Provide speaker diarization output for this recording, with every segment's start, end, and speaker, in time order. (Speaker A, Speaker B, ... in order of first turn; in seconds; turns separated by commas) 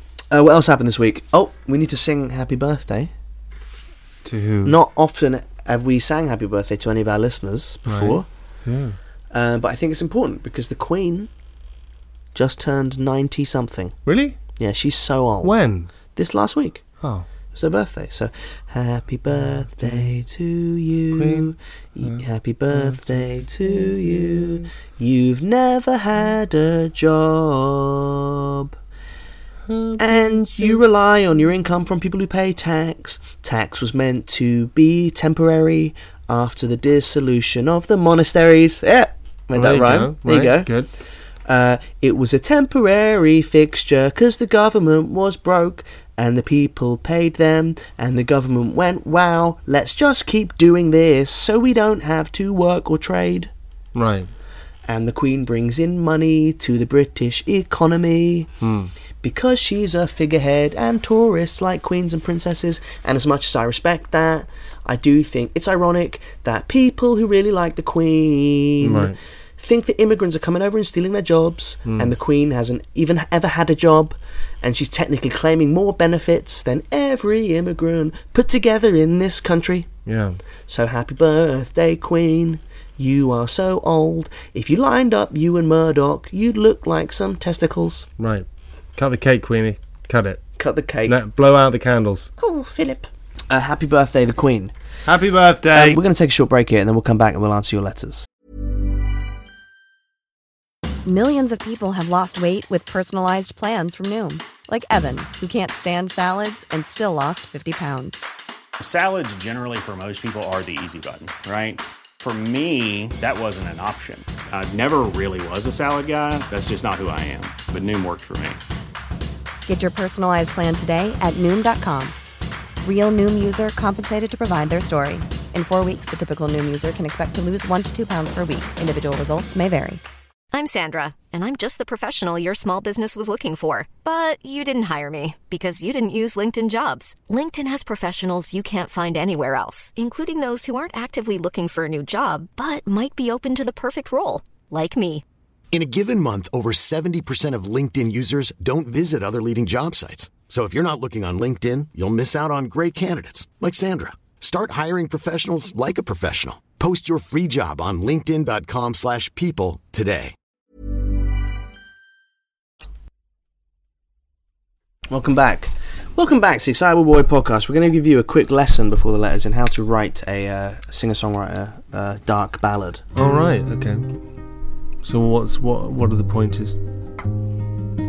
Speaker A: 0.3-3.1, Speaker B: 4.2-4.8, Speaker A: 4.6-8.2, Speaker B: 7.9-9.0, Speaker A: 9.3-11.3, Speaker A: 12.3-13.9, Speaker B: 14.1-14.4, Speaker A: 14.6-15.5, Speaker B: 15.4-15.9, Speaker A: 16.1-16.8, Speaker A: 17.5-28.7, Speaker B: 21.1-21.5, Speaker B: 22.0-24.6, Speaker B: 29.7-30.8, Speaker A: 30.0-40.7, Speaker B: 39.5-40.9, Speaker A: 41.5-53.5, Speaker B: 53.9-54.3, Speaker A: 54.9-58.5, Speaker B: 58.6-58.9, Speaker A: 59.2-79.9, Speaker B: 68.8-69.2, Speaker B: 71.8-72.1, Speaker B: 80.0-80.4, Speaker A: 80.7-88.0, Speaker B: 88.2-90.4, Speaker A: 90.6-91.2, Speaker B: 91.0-92.3, Speaker A: 92.4-94.7, Speaker B: 95.0-96.0, Speaker A: 95.7-98.3, Speaker C: 101.0-108.2, Speaker D: 108.8-118.6, Speaker C: 119.7-122.1, Speaker C: 122.8-130.0, Speaker E: 130.5-145.2, Speaker F: 145.7-160.3, Speaker A: 165.1-173.0, Speaker B: 173.1-174.0, Speaker B: 175.0-176.8